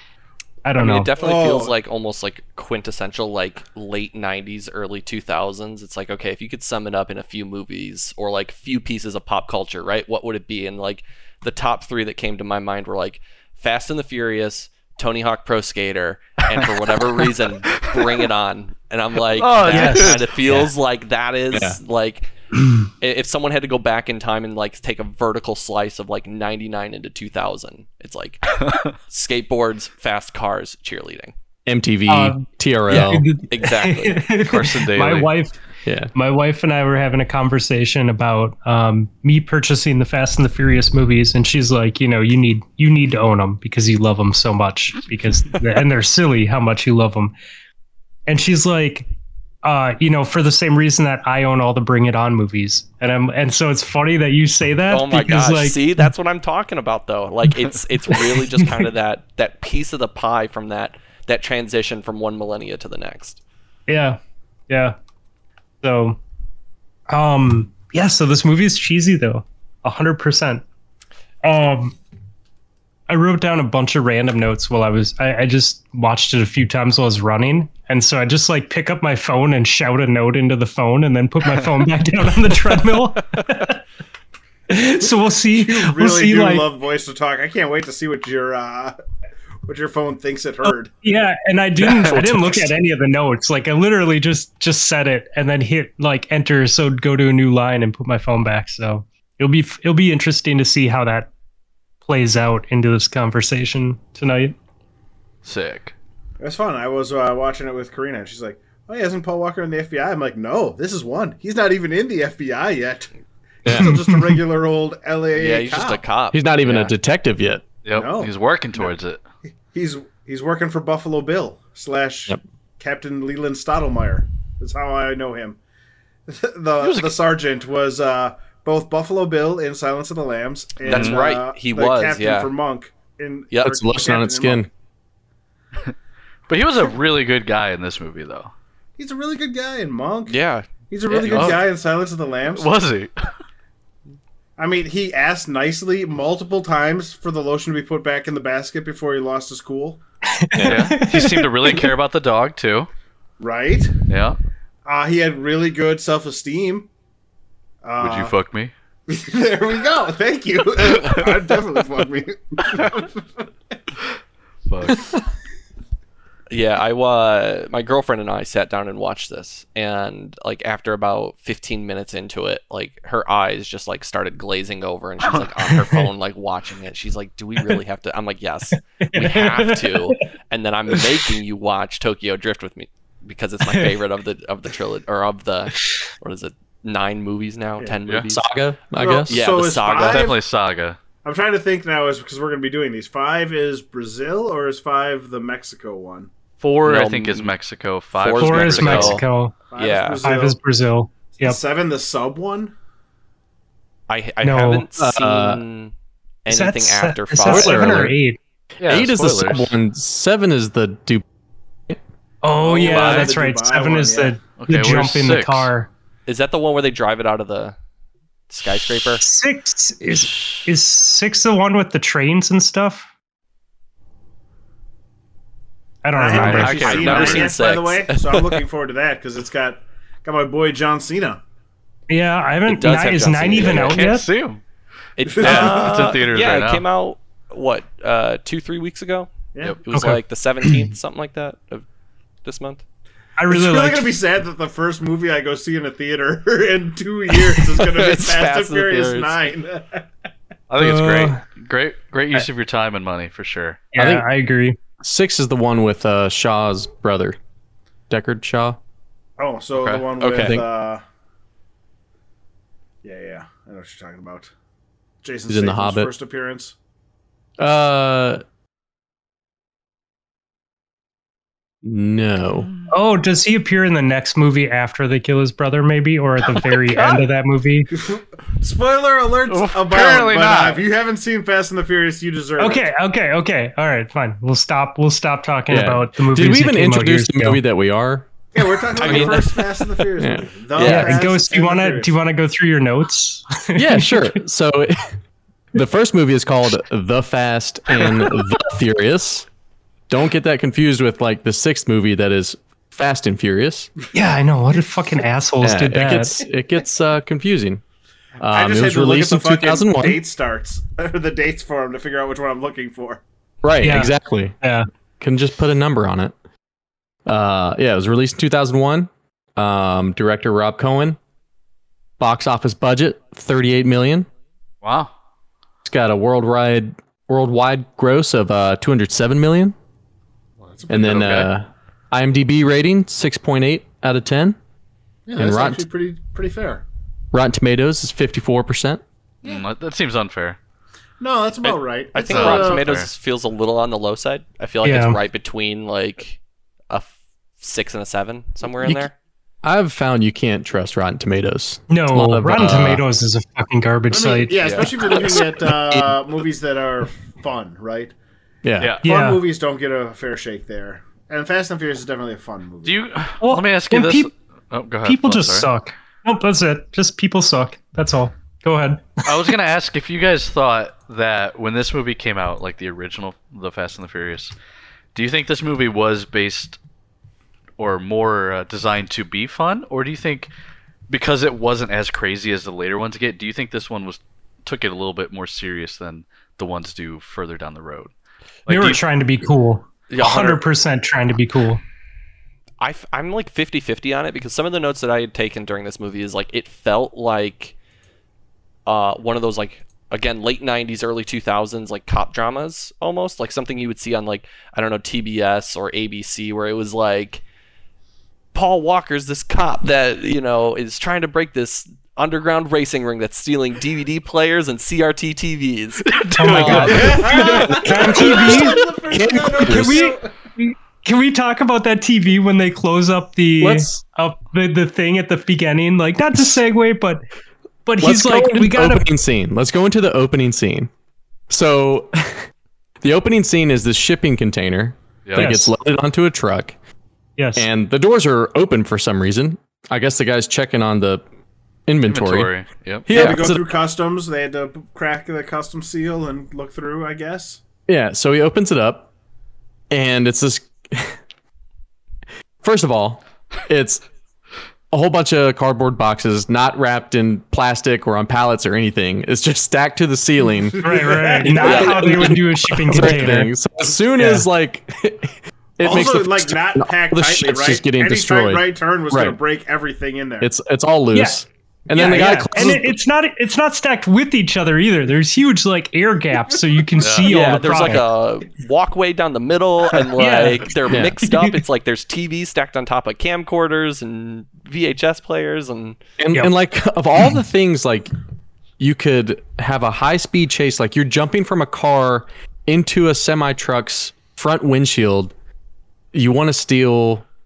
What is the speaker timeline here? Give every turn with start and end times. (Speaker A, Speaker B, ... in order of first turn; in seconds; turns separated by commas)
Speaker A: 0.6-1.1, Speaker B: 0.8-22.3, Speaker C: 1.2-1.7, Speaker D: 19.4-20.3, Speaker A: 19.7-20.2, Speaker E: 21.5-21.8, Speaker B: 23.0-28.5, Speaker D: 28.6-28.9, Speaker B: 29.1-31.3, Speaker E: 31.6-33.2, Speaker A: 32.1-35.6, Speaker B: 32.9-34.3, Speaker D: 34.4-35.3, Speaker E: 35.9-36.1, Speaker A: 36.1-47.3, Speaker A: 48.3-49.1, Speaker A: 49.6-56.1, Speaker B: 54.9-63.4, Speaker A: 58.1-58.8, Speaker A: 63.9-65.0, Speaker A: 65.8-66.2, Speaker A: 67.1-70.6, Speaker A: 71.4-72.0, Speaker A: 73.1-83.8, Speaker A: 84.7-86.7, Speaker C: 85.5-89.0, Speaker C: 89.7-90.9, Speaker A: 90.6-101.3, Speaker E: 91.8-92.7, Speaker A: 102.0-104.5, Speaker D: 105.4-105.9, Speaker C: 106.4-113.1, Speaker E: 113.6-113.9, Speaker C: 113.7-116.0, Speaker A: 113.7-114.4, Speaker B: 115.3-116.9, Speaker E: 116.3-117.6, Speaker D: 117.8-119.2, Speaker C: 117.9-118.9, Speaker C: 119.7-125.6, Speaker C: 126.3-134.7, Speaker D: 126.8-127.2, Speaker B: 130.8-132.5, Speaker D: 130.9-131.2, Speaker E: 133.6-134.7, Speaker D: 136.5-138.5, Speaker C: 139.0-140.4, Speaker B: 140.3-141.6, Speaker C: 140.9-142.7, Speaker D: 141.2-141.6, Speaker D: 142.5-143.1, Speaker C: 144.6-150.0, Speaker A: 150.3-151.9, Speaker D: 150.6-152.9, Speaker C: 153.4-153.9, Speaker D: 154.1-154.4, Speaker C: 154.8-156.9, Speaker C: 157.8-158.3, Speaker D: 158.0-158.7, Speaker C: 159.1-163.4, Speaker D: 160.9-161.3, Speaker D: 164.7-165.1, Speaker B: 166.5-188.4, Speaker A: 175.7-176.0, Speaker A: 178.7-180.2, Speaker E: 188.3-189.4, Speaker C: 188.9-190.4, Speaker B: 189.3-190.3, Speaker D: 189.9-191.0, Speaker C: 191.2-196.3, Speaker D: 196.6-199.2, Speaker B: 196.8-197.5, Speaker B: 198.2-199.2, Speaker A: 198.3-199.6, Speaker C: 199.7-200.6, Speaker B: 199.7-200.2, Speaker A: 200.2-201.6, Speaker C: 201.4-202.7, Speaker B: 204.1-205.9, Speaker A: 204.4-204.9, Speaker E: 205.0-205.6, Speaker B: 206.4-208.1, Speaker A: 206.5-208.4, Speaker E: 207.4-208.2, Speaker D: 208.8-209.7, Speaker E: 208.8-211.2, Speaker A: 212.4-215.9, Speaker C: 212.6-214.3, Speaker D: 212.8-213.3, Speaker D: 214.6-215.7, Speaker B: 216.3-217.8, Speaker B: 218.5-219.2, Speaker A: 219.2-223.1, Speaker A: 226.0-227.2, Speaker C: 226.1-231.4, Speaker B: 226.3-228.6, Speaker D: 226.3-227.5, Speaker A: 232.1-234.3, Speaker B: 232.7-234.1, Speaker D: 233.6-234.6, Speaker B: 235.2-241.8, Speaker C: 235.2-236.2, Speaker D: 235.4-236.8, Speaker A: 239.9-240.8, Speaker B: 242.4-242.8, Speaker A: 243.4-244.1, Speaker C: 243.5-250.1, Speaker B: 247.6-249.4, Speaker D: 250.7-253.9, Speaker A: 250.8-251.4, Speaker A: 253.9-254.8, Speaker E: 254.0-254.3, Speaker E: 255.0-257.4, Speaker E: 258.1-258.8, Speaker C: 259.4-261.0, Speaker D: 259.8-260.0, Speaker B: 260.2-260.6, Speaker E: 260.4-260.6, Speaker C: 263.0-264.5, Speaker C: 265.2-266.7, Speaker E: 265.5-266.1, Speaker E: 267.6-268.4, Speaker E: 271.8-272.7, Speaker A: 272.9-277.9, Speaker C: 277.9-282.9, Speaker D: 279.5-280.8, Speaker A: 282.6-287.6, Speaker E: 285.7-288.3, Speaker C: 288.5-292.1, Speaker E: 288.9-289.4, Speaker B: 289.0-289.5, Speaker E: 290.2-290.5, Speaker B: 290.7-291.2, Speaker A: 290.8-294.3, Speaker E: 293.7-295.1, Speaker E: 295.7-299.5, Speaker E: 300.1-303.9, Speaker A: 304.1-306.4, Speaker E: 305.6-307.8, Speaker E: 308.4-310.2, Speaker C: 308.5-313.2, Speaker E: 313.6-314.6, Speaker A: 313.8-314.9, Speaker E: 315.2-316.3, Speaker E: 317.2-321.2, Speaker E: 322.2-324.3, Speaker D: 324.8-325.1, Speaker E: 325.8-329.7, Speaker C: 330.6-331.5, Speaker E: 330.9-334.6, Speaker D: 331.0-331.5, Speaker C: 335.3-336.8, Speaker E: 335.4-335.8, Speaker E: 337.3-339.0, Speaker D: 339.4-340.6, Speaker C: 341.2-343.0, Speaker B: 341.6-349.1, Speaker D: 342.3-343.1, Speaker A: 344.8-345.2, Speaker E: 348.8-349.1, Speaker E: 349.6-353.0, Speaker A: 351.9-354.9, Speaker C: 354.1-358.1, Speaker B: 354.6-354.9, Speaker E: 355.2-356.1, Speaker E: 358.6-358.9, Speaker D: 358.8-359.1, Speaker A: 359.0-359.4, Speaker C: 359.0-363.0, Speaker D: 362.8-365.7, Speaker A: 363.4-364.3, Speaker A: 365.0-369.5, Speaker D: 369.2-374.5, Speaker D: 375.1-376.8, Speaker D: 377.8-380.5, Speaker D: 381.1-388.1, Speaker D: 388.6-389.0, Speaker A: 388.7-391.8, Speaker B: 390.1-390.6, Speaker B: 392.8-397.7, Speaker B: 398.9-407.4, Speaker B: 408.5-418.1, Speaker D: 416.1-417.2, Speaker A: 416.4-418.9, Speaker C: 416.9-420.3, Speaker E: 417.4-420.0, Speaker A: 419.6-427.2, Speaker E: 423.6-424.0, Speaker A: 427.8-429.1, Speaker E: 428.0-430.9, Speaker E: 431.5-432.5, Speaker E: 433.0-436.7, Speaker D: 435.2-435.5, Speaker A: 435.4-435.7, Speaker A: 437.4-437.6, Speaker E: 437.6-441.2, Speaker E: 441.9-442.5, Speaker D: 442.1-443.3, Speaker E: 443.1-443.7, Speaker C: 443.1-447.6, Speaker E: 447.9-449.1, Speaker E: 449.9-451.2, Speaker E: 452.6-454.0, Speaker E: 454.9-460.8, Speaker C: 460.8-462.3, Speaker A: 460.8-463.5, Speaker E: 461.4-469.4, Speaker A: 464.2-464.4, Speaker C: 465.8-470.5, Speaker E: 470.4-473.0, Speaker A: 471.1-478.1, Speaker D: 477.0-477.3, Speaker B: 477.2-486.0, Speaker A: 480.2-481.6, Speaker E: 480.9-481.1, Speaker E: 486.2-488.1, Speaker E: 488.8-495.3, Speaker E: 496.1-497.2